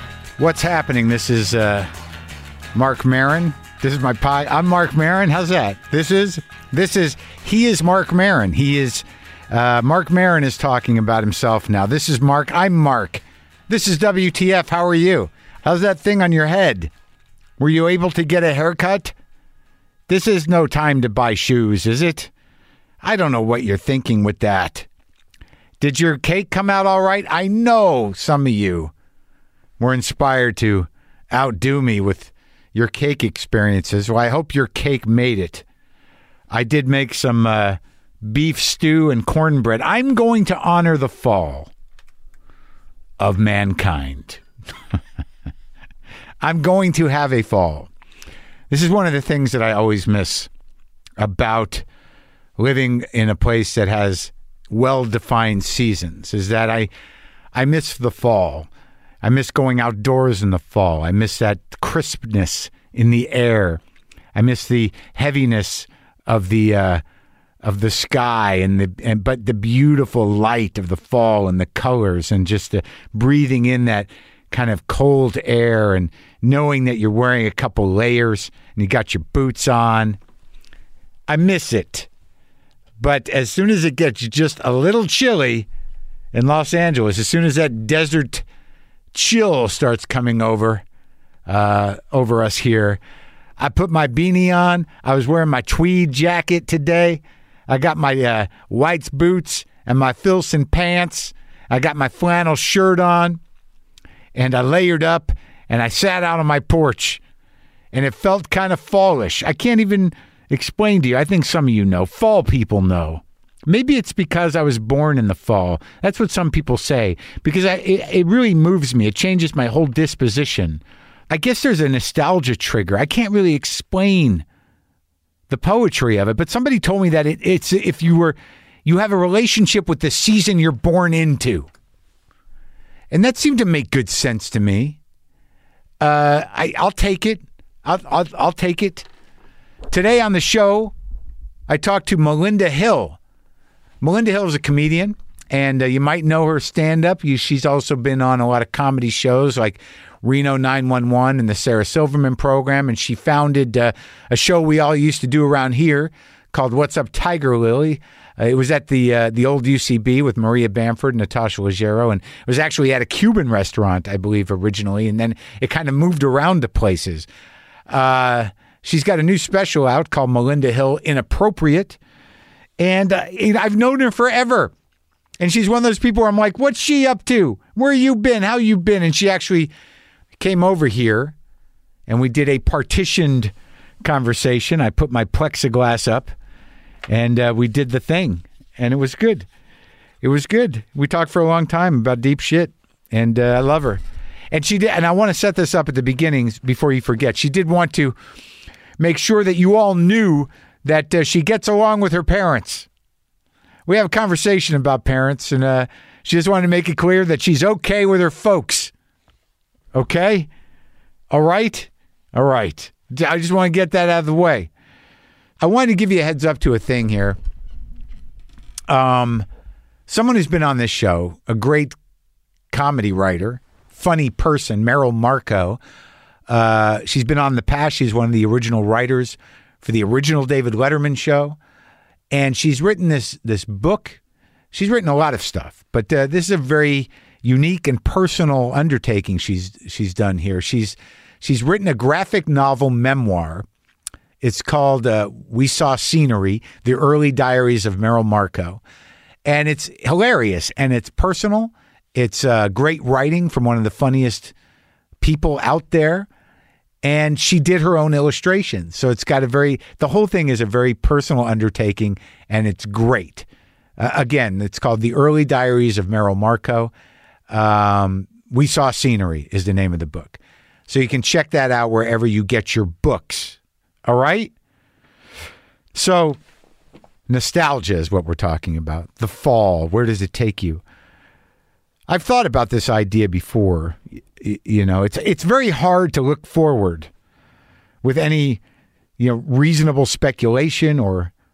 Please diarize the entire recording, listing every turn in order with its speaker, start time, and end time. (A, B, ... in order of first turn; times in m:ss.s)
0:00.4-0:01.9 A
0:02.7-0:16.9 A
0:17.6-0:19.1 A
0:20.1-0:22.3 A
0:23.0-0:24.9 A
0:25.8-0:28.9 A
0:29.8-0:35.6 A
0:36.5-0:41.7 A
0:43.2-0:44.4 A
0:46.4-0:47.9 A
0:48.7-0:50.5 A
0:51.2-0:51.8 A
0:52.6-0:56.9 A
0:57.5-0:58.7 A
0:59.2-1:03.8 A
1:04.3-1:07.0 A
1:07.6-1:20.2 A
1:21.3-1:22.1 A
1:23.0-1:25.7 A
1:26.3-1:28.4 A
1:29.1-1:30.8 A
1:31.5-1:33.0 A
1:33.6-1:43.4 A
1:44.3-1:47.2 A
1:47.9-2:04.4 A
2:05.5-2:11.7 A
2:13.1-2:15.0 A
2:16.0-2:19.1 A
2:19.9-2:20.9 A
2:21.7-2:23.2 A
2:24.0-2:47.3 A
2:47.9-2:52.0 A
2:52.8-2:54.7 A
2:55.4-2:59.7 A
3:00.4-3:01.3 A
3:02.1-3:03.5 A
3:04.0-3:06.3 A
3:07.1-3:09.5 A
3:10.2-3:18.2 A
3:19.0-3:22.9 A
3:23.8-3:28.9 A
3:29.9-3:30.5 A
3:31.3-3:34.7 A
3:35.6-3:37.4 A
3:38.9-3:39.4 A
3:40.1-3:41.9 A
3:42.7-3:45.8 A
3:46.5-3:51.6 A
3:52.3-3:54.2 A
3:54.7-4:03.6 A
4:04.4-4:08.8 A
4:09.4-4:14.5 A
4:15.2-4:16.3 A
4:17.0-4:26.9 A
4:27.5-4:34.5 A
4:35.9-4:36.4 A
4:37.3-4:40.8 A
4:42.1-4:47.1 A
4:48.0-4:48.6 A
4:49.2-4:51.3 A